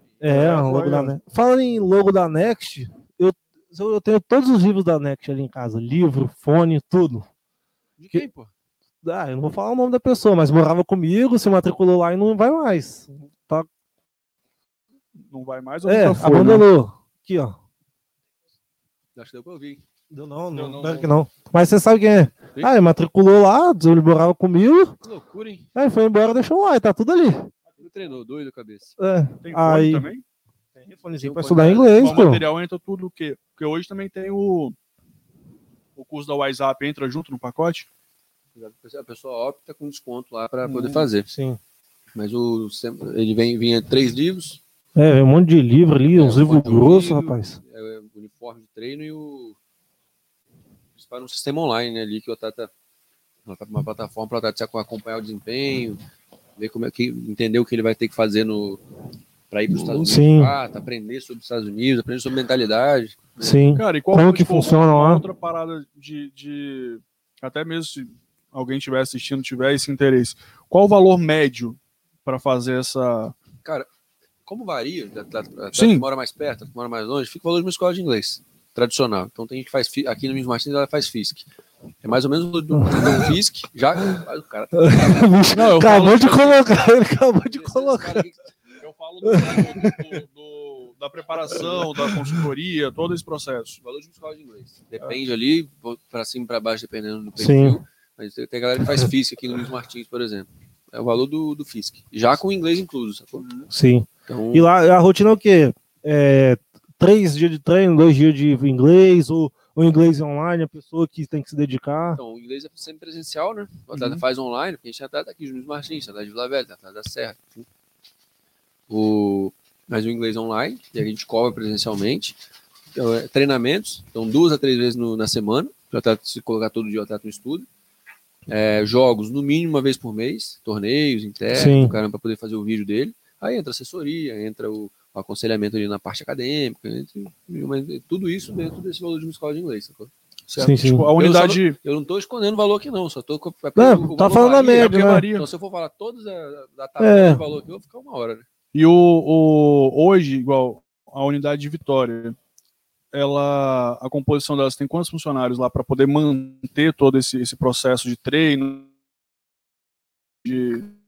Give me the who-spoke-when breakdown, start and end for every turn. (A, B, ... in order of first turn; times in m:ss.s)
0:00.2-0:07.3 A
0:00.3-0:01.1 B
0:08.0-0:08.5 C
0:09.0-0:13.7 A
0:15.2-0:16.6 B
0:15.8-0:17.6 A
0:19.2-0:19.8 C
0:20.1-0:25.0 A
0:20.5-0:21.1 B
0:25.0-0:25.6 C
0:25.7-0:27.5 A
0:27.8-0:29.0 C
0:29.0-0:30.1 A
0:29.4-0:30.2 B
0:30.8-0:32.4 A
0:31.1-0:32.3 C
0:32.0-0:34.8 B
0:36.0-0:37.9 B
0:38.5-0:41.3 C
0:41.3-0:41.6 A
0:42.1-0:44.6 C
0:45.0-0:47.6 A
0:46.1-0:49.6 C
0:51.0-0:52.7 C
0:53.4-0:56.0 C
0:56.6-0:58.8 C
0:59.5-1:03.7 C
1:00.0-1:00.5 A
1:03.4-1:05.2 A
1:03.7-1:13.3 B
1:13.6-1:13.9 C
1:14.4-1:21.5 C
1:15.7-1:16.0 B
1:22.0-1:26.8 C
1:22.8-1:23.2 A
1:24.7-1:28.2 A
1:25.5-1:26.4 B
1:27.4-1:28.4 C
1:28.8-1:33.8 B
1:29.2-1:30.0 A
1:33.8-1:43.5 C
1:37.4-1:37.8 A
1:43.4-1:43.7 B
1:43.7-1:52.2 A
1:44.3-1:44.7 C
1:52.2-1:57.6 C
1:53.9-1:54.2 B
1:58.9-2:02.4 C
2:02.9-2:07.7 C
2:08.5-2:20.1 C
2:11.5-2:12.0 A
2:20.5-2:21.8 B
2:20.6-2:21.1 A
2:21.2-2:28.4 C
2:23.8-2:25.3 A
2:24.4-2:25.5 B
2:27.0-2:27.4 A
2:28.7-2:32.4 B
2:33.1-2:38.9 B
2:40.4-2:40.9 B